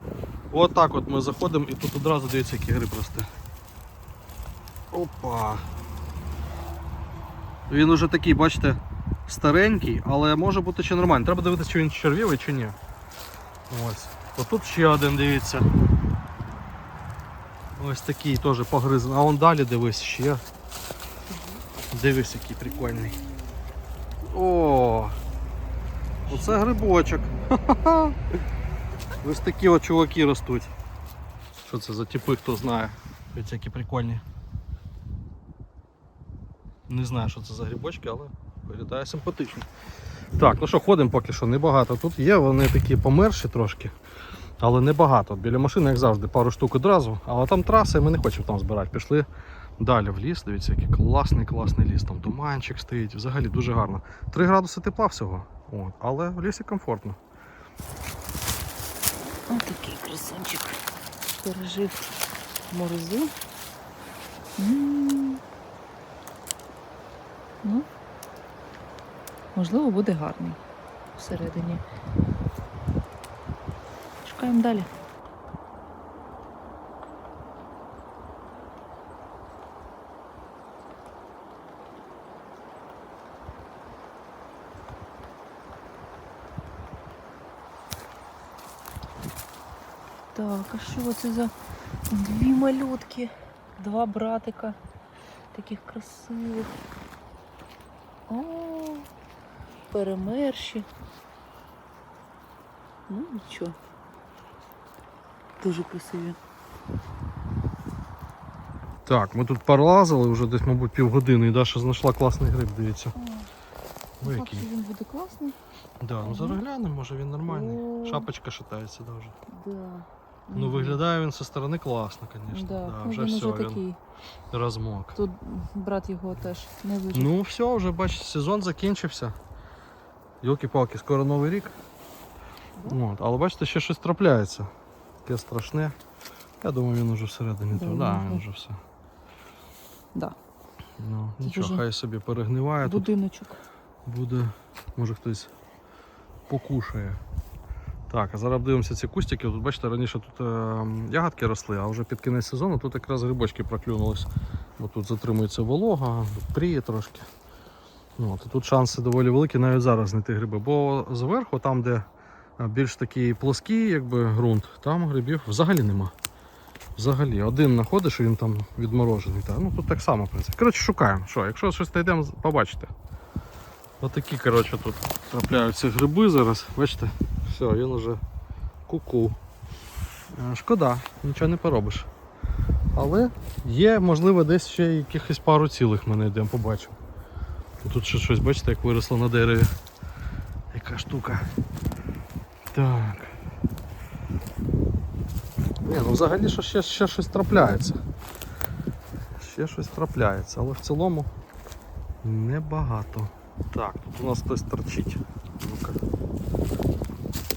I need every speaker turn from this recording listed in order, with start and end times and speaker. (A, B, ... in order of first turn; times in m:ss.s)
0:00.5-0:03.3 A
0:04.9-0:05.6 A
0:07.7-0:12.8 A
0:13.7-0:15.7 A
0:17.8-0:20.4 A
0:21.3-0:21.6 B
0:21.9-0:23.2 A
0:24.2-0:25.2 A
0:26.3-0:28.2 A
0:29.2-0:30.7 A
0:31.6-0:34.2 A
0:36.9-0:39.7 A
0:40.4-0:43.9 A
0:44.6-0:49.3 A
0:49.8-0:57.2 A
0:59.5-1:00.8 B
1:01.4-1:02.2 B
1:02.7-1:03.3 B
1:04.6-1:05.4 B
1:09.6-1:10.6 B
1:11.2-1:11.8 B
1:14.2-1:14.9 B
1:30.3-1:31.5 B
1:32.1-1:34.8 B
1:35.5-1:36.8 B
1:38.3-1:39.1 B
1:39.9-1:40.9 B
1:43.1-1:43.8 B
1:45.6-1:46.4 B
1:49.1-1:53.2 A
1:53.2-1:53.5 B
1:54.2-1:54.7 A
1:54.2-1:55.6 B
1:56.0-1:59.3 A
1:56.2-1:56.6 B
1:57.5-1:58.3 B
1:59.5-2:01.0 B
2:00.6-2:03.8 A
2:02.5-2:04.0 B
2:04.5-2:05.2 A
2:05.2-2:07.3 B
2:07.1-2:09.4 A
2:10.4-2:11.8 A
2:12.9-2:14.7 A
2:15.2-2:16.0 A
2:16.6-2:18.8 A
2:17.7-2:18.4 B
2:21.0-2:23.1 A
2:21.4-2:21.8 B
2:22.8-2:23.6 B
2:24.1-2:25.5 A
2:26.5-2:27.2 A
2:28.1-2:37.3 A
2:38.2-2:42.1 A
2:42.6-2:46.1 A
2:47.0-2:52.9 A
2:54.0-2:58.2 A
2:58.9-2:59.4 A
3:00.3-3:02.1 A
3:03.0-3:07.0 A
3:07.8-3:09.7 A
3:10.7-3:11.5 A
3:12.7-3:13.4 A
3:15.8-3:18.0 A
3:19.4-3:21.3 A
3:22.2-3:26.0 A